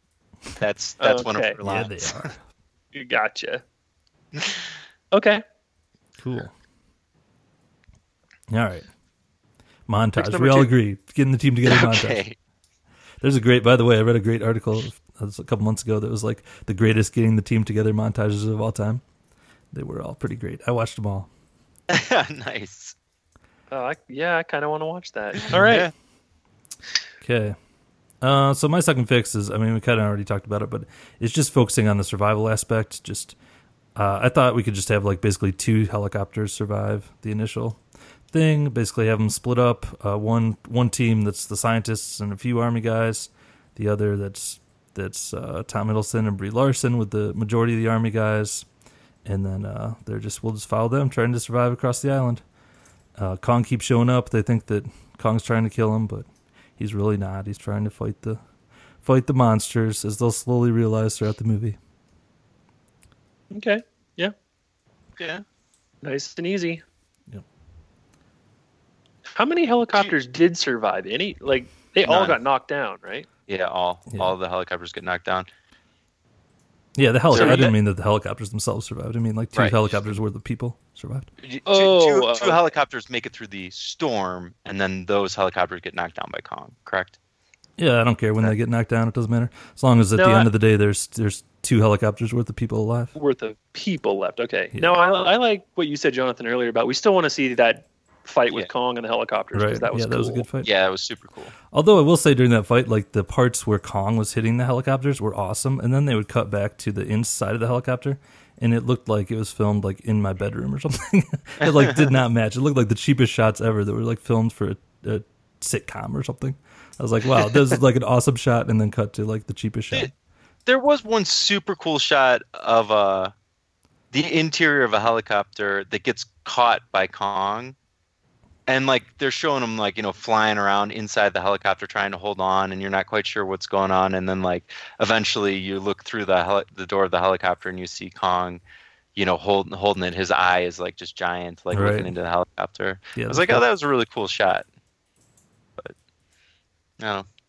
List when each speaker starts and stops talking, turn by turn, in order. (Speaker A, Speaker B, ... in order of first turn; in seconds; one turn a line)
Speaker A: 0.6-2.2
Speaker B: 1.0-1.6
Speaker C: 1.6-2.4
Speaker B: 2.9-3.6
Speaker A: 4.3-4.6
Speaker B: 5.1-5.4
Speaker C: 6.2-6.5
Speaker C: 8.5-8.9
Speaker C: 9.9-12.2
Speaker B: 10.2-10.7
Speaker A: 11.6-12.3
Speaker C: 13.2-19.0
Speaker C: 19.7-21.3
Speaker A: 21.9-22.9
Speaker B: 23.7-25.9
Speaker A: 25.5-25.9
Speaker C: 27.2-27.6
Speaker C: 28.2-33.4
Speaker C: 33.9-48.7
Speaker C: 49.2-52.4
Speaker C: 53.2-58.4
Speaker C: 59.0-61.8
Speaker B: 63.5-64.3
Speaker A: 65.2-65.4
Speaker B: 66.0-66.8
Speaker B: 69.3-73.3
Speaker A: 72.0-72.4
Speaker A: 73.5-75.5
Speaker C: 77.0-81.3
Speaker B: 77.3-77.7
Speaker A: 77.3-77.7
Speaker A: 79.5-79.9
Speaker A: 81.4-87.1
Speaker B: 81.7-82.7
Speaker C: 87.8-93.1
Speaker B: 90.2-90.5
Speaker B: 93.1-100.5
Speaker C: 99.5-100.7
Speaker A: 100.6-101.5
Speaker C: 101.7-120.1
Speaker A: 111.6-112.1
Speaker A: 120.7-123.3
Speaker A: 124.1-127.8
Speaker A: 128.7-138.6
Speaker A: 139.1-144.7
Speaker C: 141.7-142.1
Speaker C: 143.2-143.6
Speaker A: 147.0-147.2